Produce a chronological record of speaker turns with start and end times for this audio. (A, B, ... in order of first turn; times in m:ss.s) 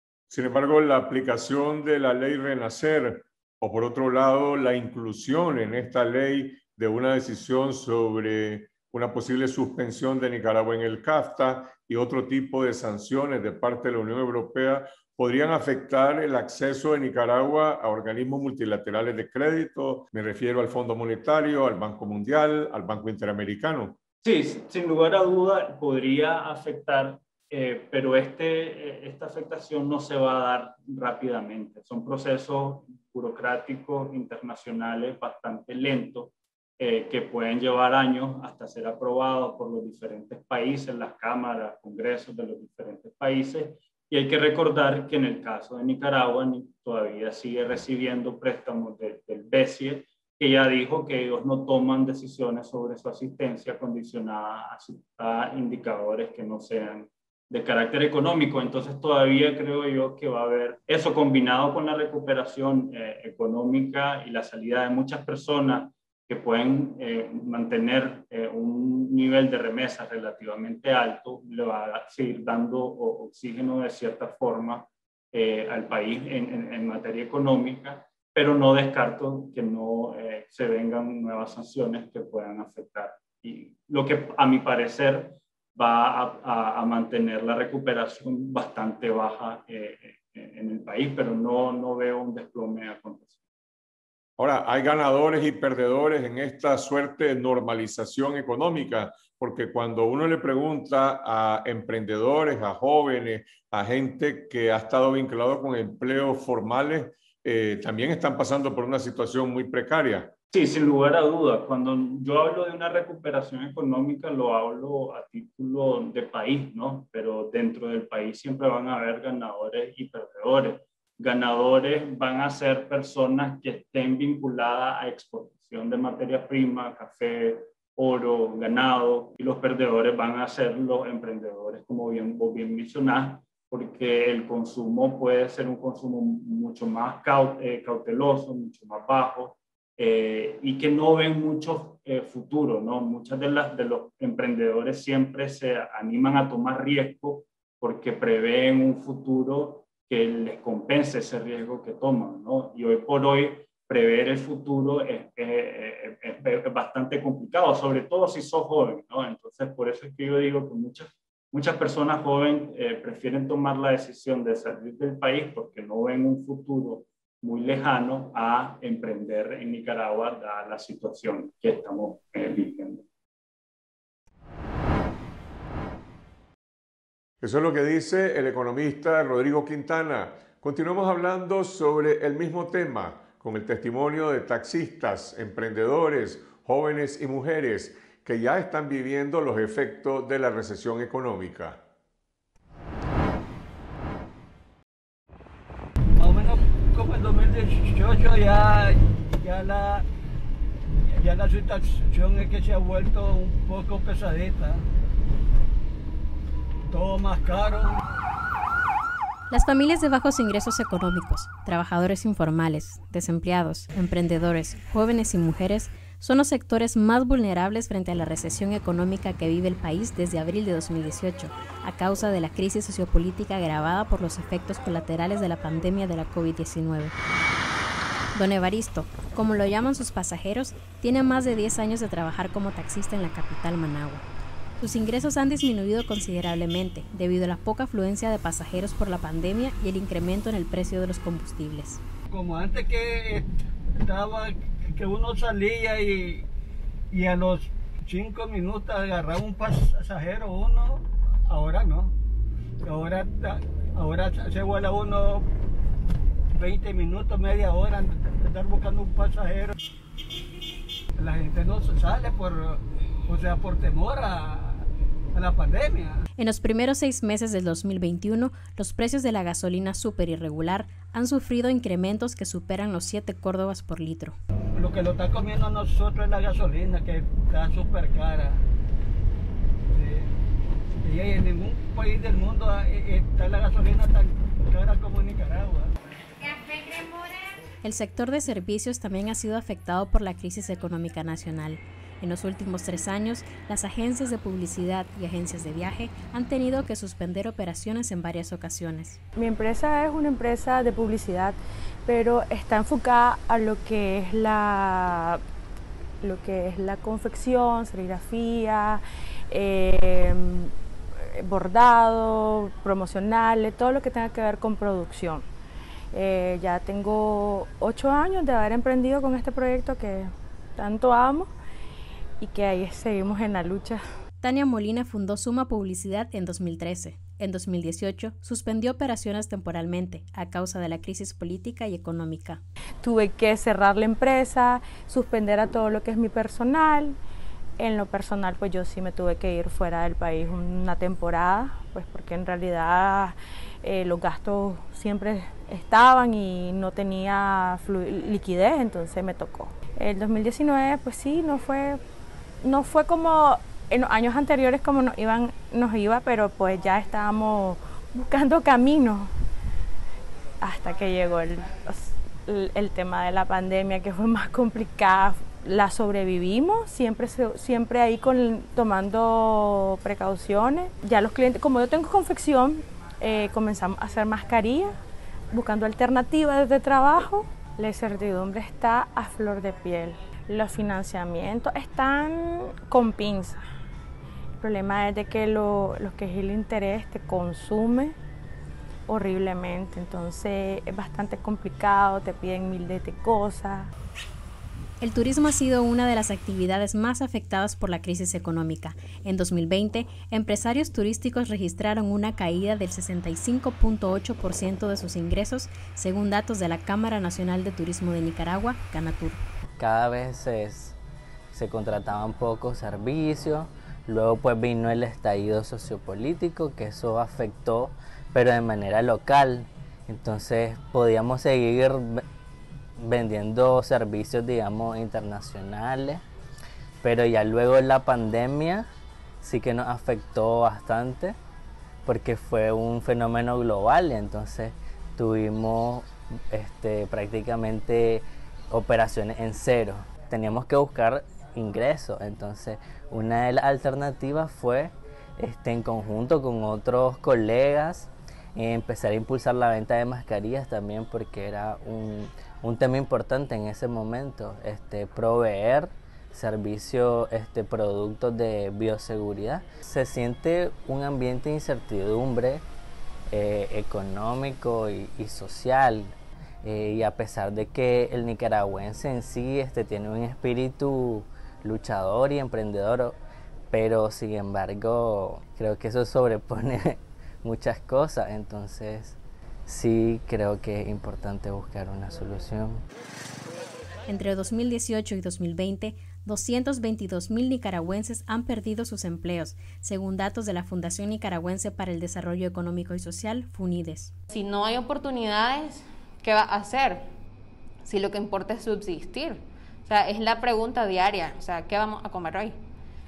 0:00.3-0:24.0 A
0:24.2-1:33.4 B
1:34.4-1:50.3 A
1:50.5-2:53.0 B
2:57.4-3:11.8 A
3:16.2-3:20.0 C
3:21.2-3:24.8 C
3:26.9-3:28.0 C
3:29.5-3:47.1 D
3:48.3-3:54.2 D
3:54.8-4:02.0 D
4:02.3-4:03.5 C
4:04.0-4:06.4 C
4:07.1-4:12.1 C
4:12.8-4:15.5 C
4:16.5-4:19.7 C
4:21.2-4:26.2 C
4:26.4-4:34.4 D
4:34.8-4:38.6 C
4:39.9-4:40.3 C
4:41.0-4:45.9 C
4:47.8-4:59.2 D
4:59.3-5:05.4 E
5:06.2-5:15.4 E
5:16.1-5:21.5 E
5:22.4-5:24.0 E
5:24.4-5:32.6 D
5:33.0-5:37.2 E
5:37.8-5:52.0 E
5:52.6-5:59.3 E
6:00.6-6:15.0 E
6:15.5-6:23.6 E
6:24.6-6:28.2 E
6:29.1-6:33.9 E
6:35.0-6:49.4 D
6:49.8-6:50.9 F
6:51.5-7:02.2 F
7:03.0-7:06.2 F
7:07.0-7:08.8 F
7:09.4-7:11.4 F
7:12.0-7:42.6 F
7:43.3-7:53.2 F
7:53.7-8:02.8 F
8:04.1-8:14.1 D
8:14.3-8:17.1 G
8:17.8-8:22.6 G